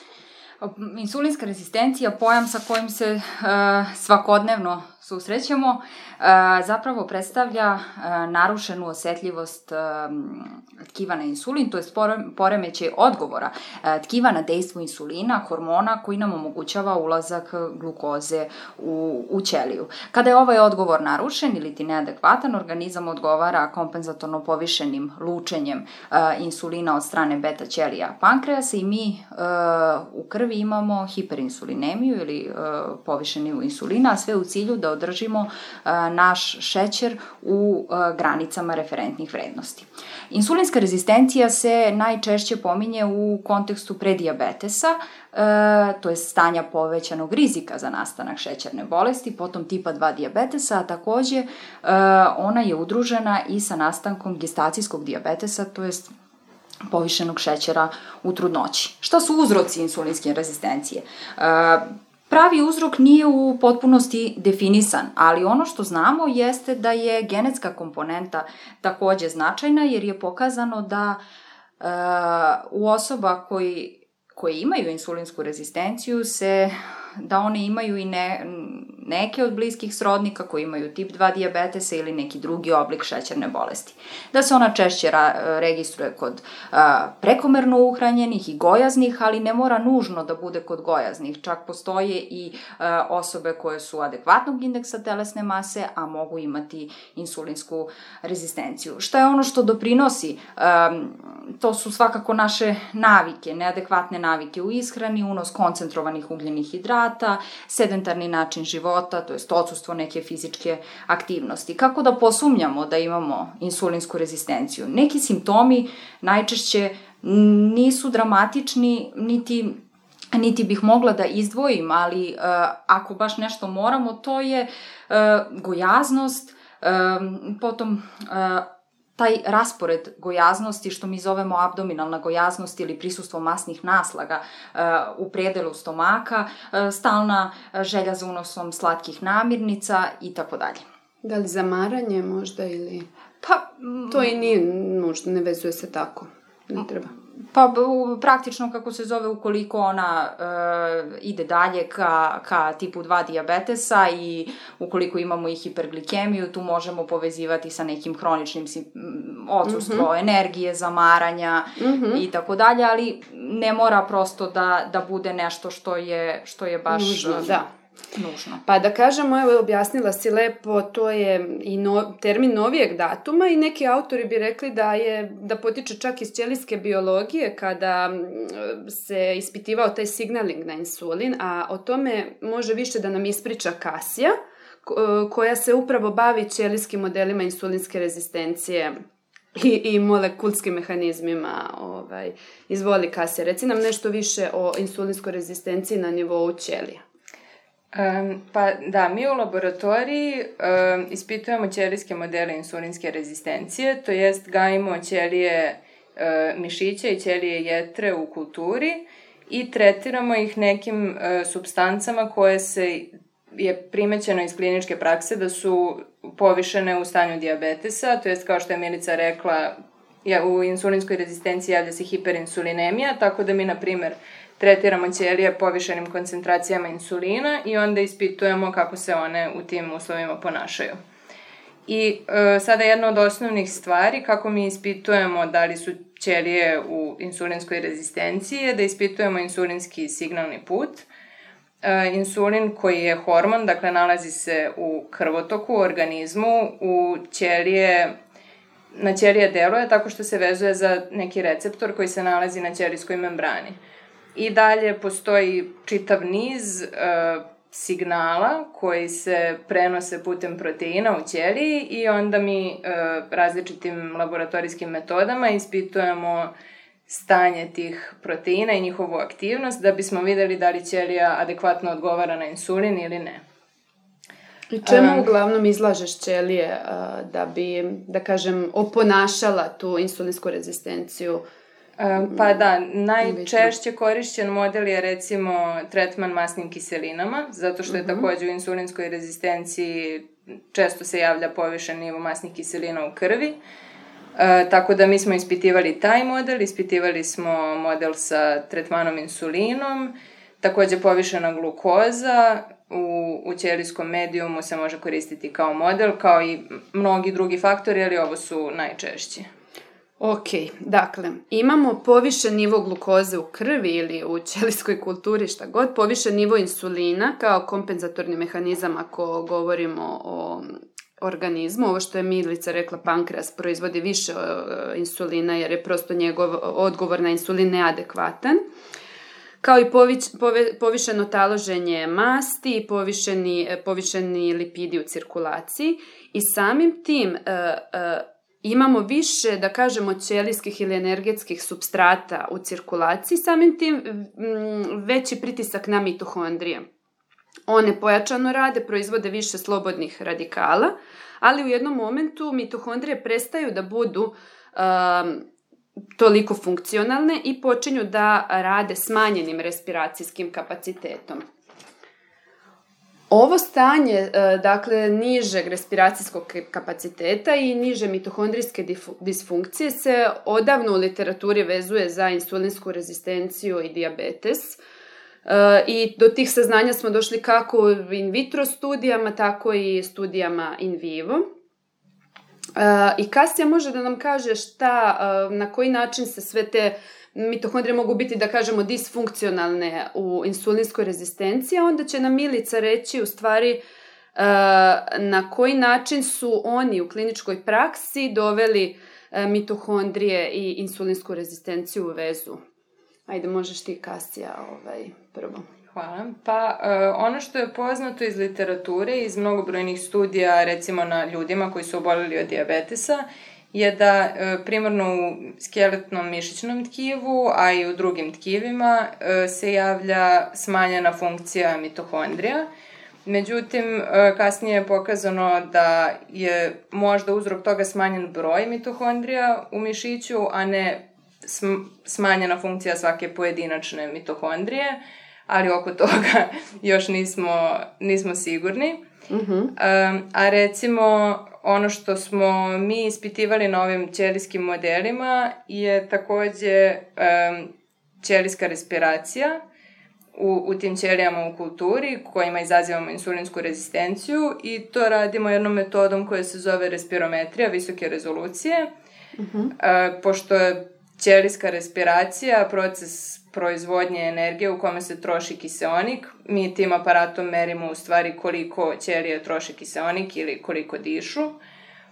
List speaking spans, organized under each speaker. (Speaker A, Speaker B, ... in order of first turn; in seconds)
Speaker A: 0.6-56.1, 56.9-71.2, 71.8-119.8, 120.3-128.7, 129.2-140.8, 143.4-144.5, 147.5-167.6, 168.1-168.6
Speaker B: 141.2-143.1, 144.1-147.1, 159.7-160.1, 161.8-162.2, 166.9-167.7, 168.7-188.9, 189.5-197.0, 274.7-281.4, 283.2-283.7, 287.9-288.2, 310.2-328.6, 329.6-346.8, 347.7-355.4, 356.2-361.4, 363.3-374.8, 375.4-381.4, 382.8-393.8, 394.3-402.6, 403.3-405.6, 439.3-439.7, 459.4-459.7
Speaker C: 197.9-231.0, 231.9-241.1, 241.8-248.1, 248.9-253.8, 254.3-266.5, 267.1-273.4, 274.9-275.3, 282.0-293.6, 294.4-309.5, 405.9-422.7, 423.2-439.0, 439.8-447.7, 448.2-449.6, 450.3-458.9, 459.8-471.5